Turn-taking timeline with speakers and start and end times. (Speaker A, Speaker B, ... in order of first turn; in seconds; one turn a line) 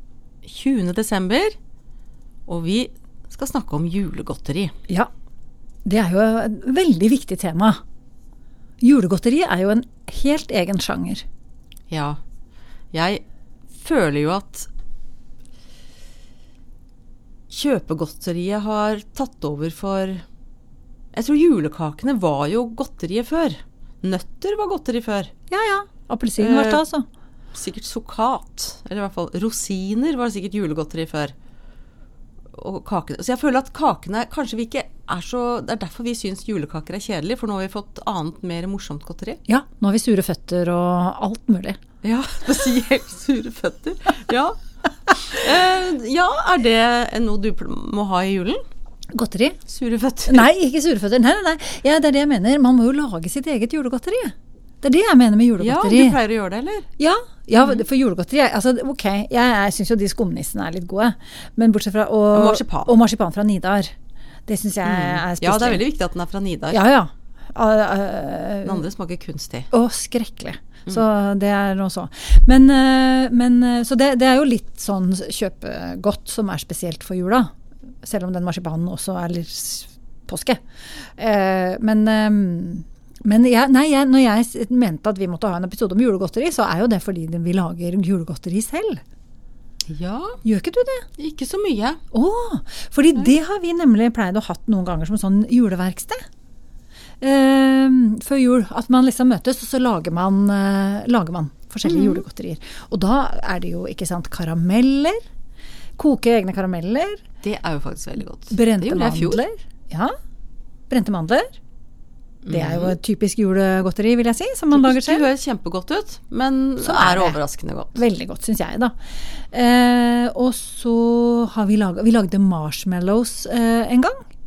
Speaker A: 0.4-1.6
Speaker A: 2.5-4.7
Speaker B: 5.8-7.8
Speaker B: 8.8-11.2
Speaker A: 11.9-12.2
Speaker A: 12.9-13.2
Speaker A: 13.8-14.7
Speaker A: 17.5-20.2
Speaker A: 21.1-25.3
Speaker B: 25.5-27.1
Speaker A: 26.4-26.8
Speaker A: 27.5-31.3
Speaker A: 32.5-39.4
Speaker B: 39.5-41.8
Speaker A: 42.0-44.6
Speaker A: 45.2-48.6
Speaker B: 49.1-49.6
Speaker A: 49.7-50.5
Speaker B: 50.3-56.2
Speaker A: 55.6-56.9
Speaker B: 57.0-63.9
Speaker A: 62.3-62.9
Speaker B: 64.5-65.9
Speaker A: 64.8-66.8
Speaker B: 66.7-68.9
Speaker A: 68.7-69.7
Speaker B: 69.7-89.0
Speaker A: 89.9-90.4
Speaker B: 90.4-91.1
Speaker A: 91.2-92.0
Speaker B: 92.1-96.2
Speaker B: 97.2-105.2
Speaker A: 101.8-102.2
Speaker B: 106.0-107.2
Speaker A: 107.4-109.4
Speaker B: 108.5-110.2
Speaker B: 110.9-111.6
Speaker A: 112.5-112.9
Speaker B: 112.5-115.3
Speaker A: 114.7-118.0
Speaker B: 116.8-117.4
Speaker B: 117.9-124.2